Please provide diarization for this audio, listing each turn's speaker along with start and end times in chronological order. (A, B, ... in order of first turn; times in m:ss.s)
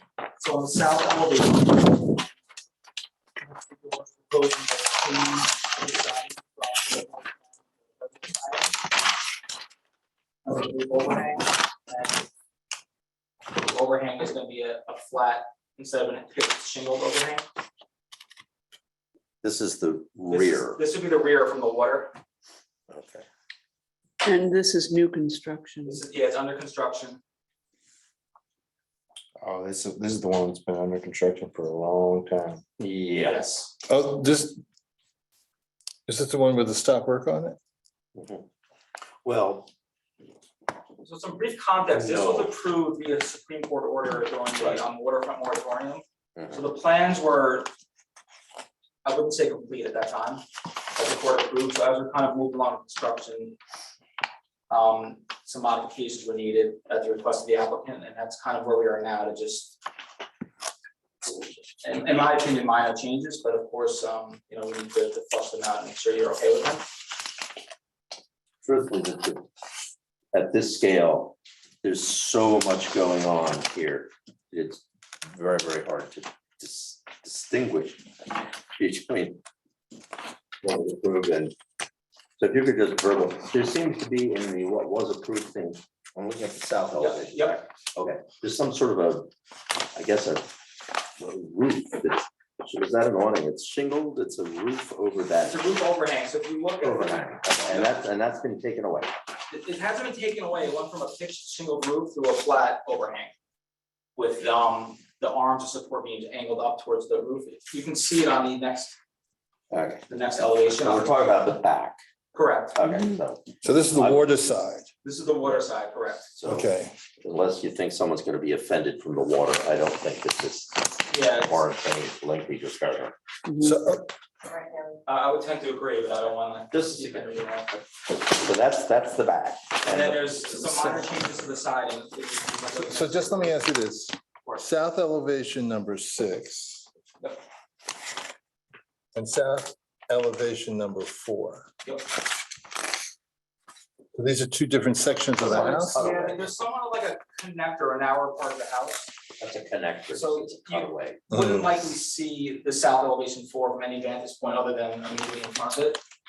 0:00.4-0:02.2 A
0:03.4-0:08.8 A
0:10.4-0:12.2 A
0:13.5-0:17.4 A
0:19.4-0:20.8 B
0:20.3-0:22.1 A
0:22.9-0:23.2 B
0:24.2-0:26.0 C
0:25.9-0:27.2 A
0:29.4-0:32.6 D
0:32.8-0:33.4 B
0:33.2-0:33.7 A
0:33.9-0:34.6 E
0:36.1-0:37.6 E
0:38.2-0:38.4 B
0:39.2-0:39.7 B
0:41.0-0:47.7 A
0:41.9-0:42.5 B
0:44.6-0:44.8 B
0:49.0-0:50.4 A
0:50.9-0:53.6 A
0:54.7-0:59.7 A
1:01.8-1:06.8 A
1:08.6-1:09.4 B
1:10.3-1:19.4 B
1:20.6-1:21.6 B
1:22.4-1:29.3 B
1:27.0-1:27.6 A
1:29.9-1:30.5 B
1:31.2-1:35.6 B
1:35.5-1:38.0 A
1:36.8-1:39.1 B
1:39.5-1:43.3 A
1:44.2-1:48.9 A
1:49.7-1:52.0 B
1:50.1-1:51.1 A
1:52.3-1:52.8 A
1:52.7-1:54.2 B
1:53.6-1:54.9 E
1:55.0-1:56.3 A
1:56.3-1:56.7 B
1:56.4-1:56.9 E
1:57.2-2:03.1 B
2:01.1-2:01.6 A
2:03.5-2:03.7 C
2:03.6-2:04.0 E
2:05.0-2:07.7 A
2:06.7-2:11.1 B
2:09.8-2:13.6 A
2:12.8-2:16.9 E
2:19.1-2:21.7 E
2:24.1-2:26.0 E
2:25.4-2:26.5 B
2:25.5-2:29.1 A
2:29.4-2:31.2 B
2:30.1-2:36.0 A
2:31.3-2:31.7 E